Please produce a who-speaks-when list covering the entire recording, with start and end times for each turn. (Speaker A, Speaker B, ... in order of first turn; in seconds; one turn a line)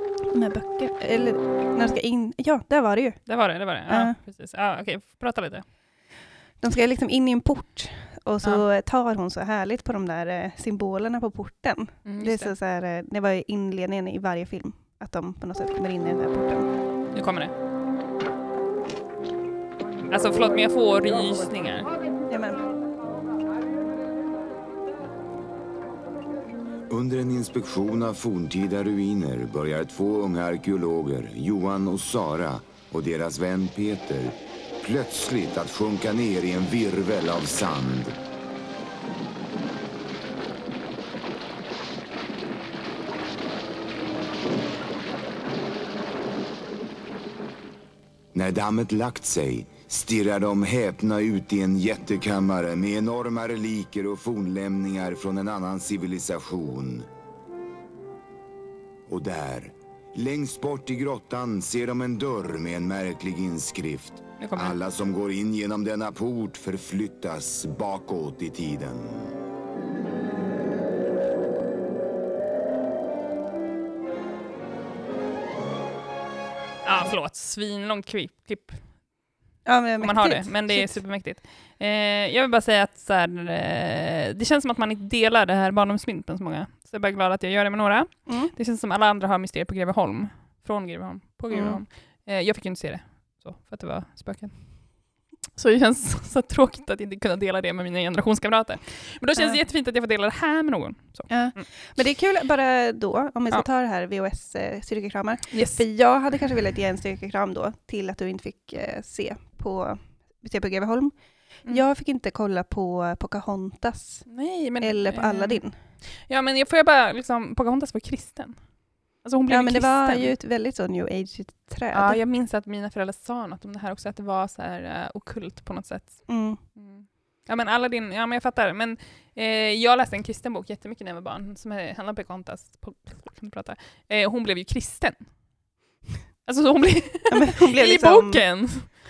Speaker A: 0.3-3.2
Speaker B: 3.3-5.7
Speaker A: 3.9-4.2
Speaker A: 6.6-16.7
Speaker B: 12.1-12.5
Speaker B: 17.1-17.5
Speaker B: 20.1-21.9
Speaker A: 22.3-22.6
Speaker C: 26.9-38.2
Speaker C: 48.3-57.1
Speaker C: 59.1-69.3
Speaker B: 64.4-64.8
Speaker B: 76.8-78.8
Speaker A: 79.7-81.0
Speaker B: 80.0-94.6
Speaker A: 88.3-88.5
Speaker A: 91.5-91.8
Speaker B: 95.6-101.6
Speaker A: 101.3-111.1
Speaker B: 105.5-105.8
Speaker A: 111.7-114.2
Speaker B: 114.3-115.6
Speaker A: 114.8-115.8
Speaker B: 116.3-118.6
Speaker B: 119.2-120.3
Speaker A: 119.5-122.2
Speaker B: 121.9-135.2
Speaker A: 126.3-126.6
Speaker B: 136.4-138.9
Speaker A: 137.3-138.4